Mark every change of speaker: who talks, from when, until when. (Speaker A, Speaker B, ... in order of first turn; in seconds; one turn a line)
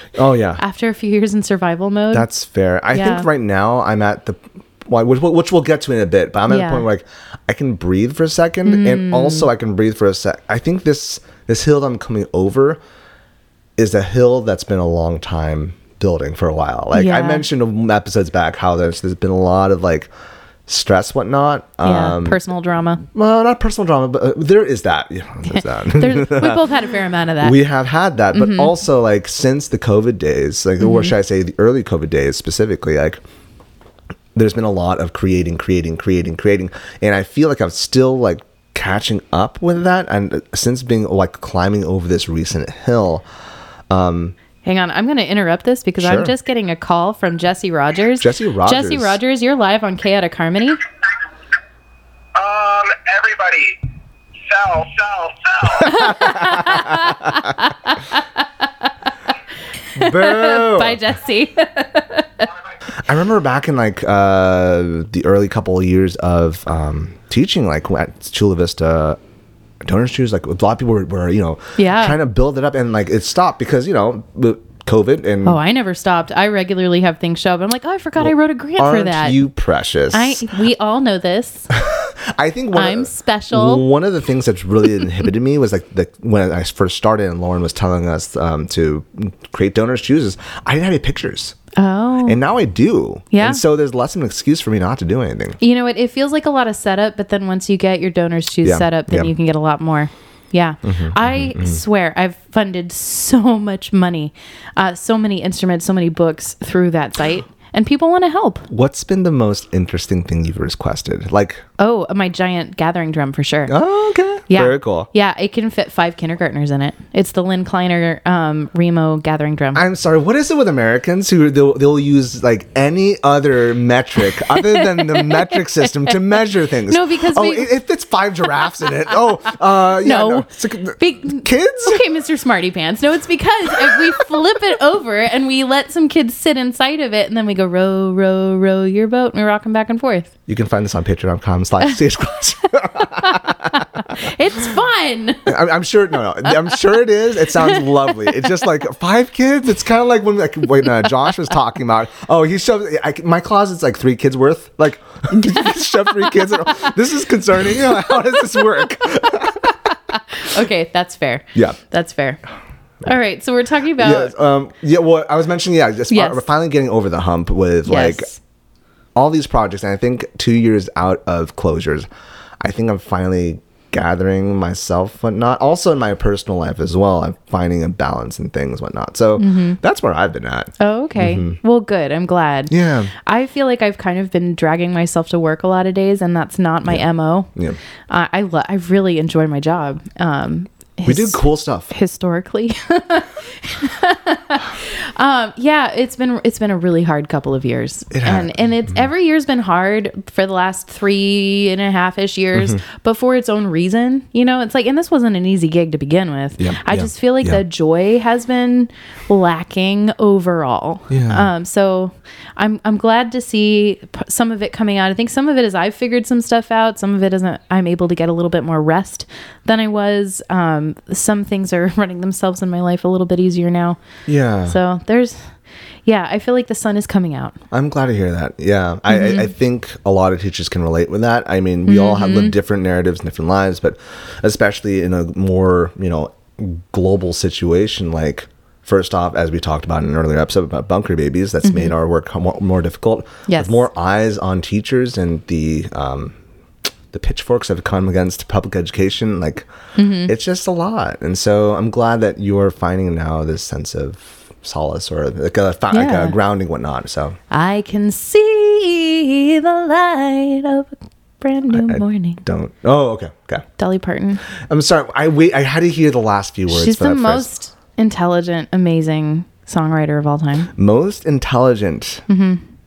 Speaker A: 0.2-0.6
Speaker B: 0.6-2.3
Speaker A: 2.1-12.8
Speaker B: 2.9-3.3
Speaker B: 6.5-6.9
Speaker B: 8.7-9.5
Speaker A: 13.8-20.1
Speaker B: 16.9-17.5
Speaker A: 20.7-22.4
Speaker B: 21.8-23.0
Speaker A: 23.1-26.6
Speaker B: 25.5-27.6
Speaker A: 27.4-33.2
Speaker B: 28.3-28.7
Speaker B: 30.8-31.1
Speaker A: 34.4-43.2
Speaker A: 43.9-44.4
Speaker B: 44.6-50.8
Speaker A: 46.0-46.3
Speaker A: 48.2-49.2
Speaker C: 52.4-53.8
Speaker C: 54.5-56.2
Speaker B: 55.9-58.9
Speaker A: 56.0-56.9
Speaker A: 59.9-61.0
Speaker B: 60.0-62.5
Speaker A: 63.0-69.2
Speaker A: 69.8-75.6
Speaker B: 71.8-72.2
Speaker B: 75.4-79.4
Speaker A: 78.2-80.5
Speaker B: 80.1-81.7
Speaker A: 81.7-91.6
Speaker B: 82.7-83.9
Speaker B: 91.8-92.4
Speaker A: 92.3-95.6
Speaker B: 93.3-93.6
Speaker B: 95.6-108.7
Speaker A: 98.6-99.3
Speaker A: 100.8-101.8
Speaker A: 108.7-111.6
Speaker B: 111.8-113.8
Speaker A: 113.7-115.1
Speaker B: 114.5-119.8
Speaker A: 119.8-132.0
Speaker B: 124.2-127.7
Speaker B: 130.0-140.3
Speaker A: 140.5-144.2
Speaker B: 144.1-145.5
Speaker A: 145.5-159.7
Speaker B: 160.3-162.4
Speaker B: 163.0-164.3
Speaker A: 164.0-168.3
Speaker B: 166.1-166.4
Speaker B: 167.9-168.4
Speaker A: 169.2-172.1
Speaker A: 172.6-181.6
Speaker B: 179.4-179.8
Speaker B: 180.8-187.5
Speaker A: 182.7-183.1
Speaker B: 188.1-224.0
Speaker A: 191.1-191.9
Speaker A: 198.1-199.0
Speaker A: 202.6-202.8
Speaker A: 206.6-207.6
Speaker A: 211.1-211.5
Speaker A: 224.3-224.8
Speaker B: 224.7-225.5
Speaker B: 226.1-227.6
Speaker A: 227.7-246.4
Speaker B: 229.1-229.5
Speaker B: 231.9-232.5
Speaker B: 241.6-241.9
Speaker B: 243.5-243.8
Speaker A: 247.1-249.7
Speaker B: 250.0-250.3
Speaker A: 250.2-257.4
Speaker B: 255.9-256.4
Speaker B: 257.5-262.4
Speaker A: 261.7-263.7
Speaker B: 263.8-264.4
Speaker A: 264.7-267.5
Speaker B: 266.7-270.7
Speaker A: 270.8-272.2
Speaker B: 272.3-272.6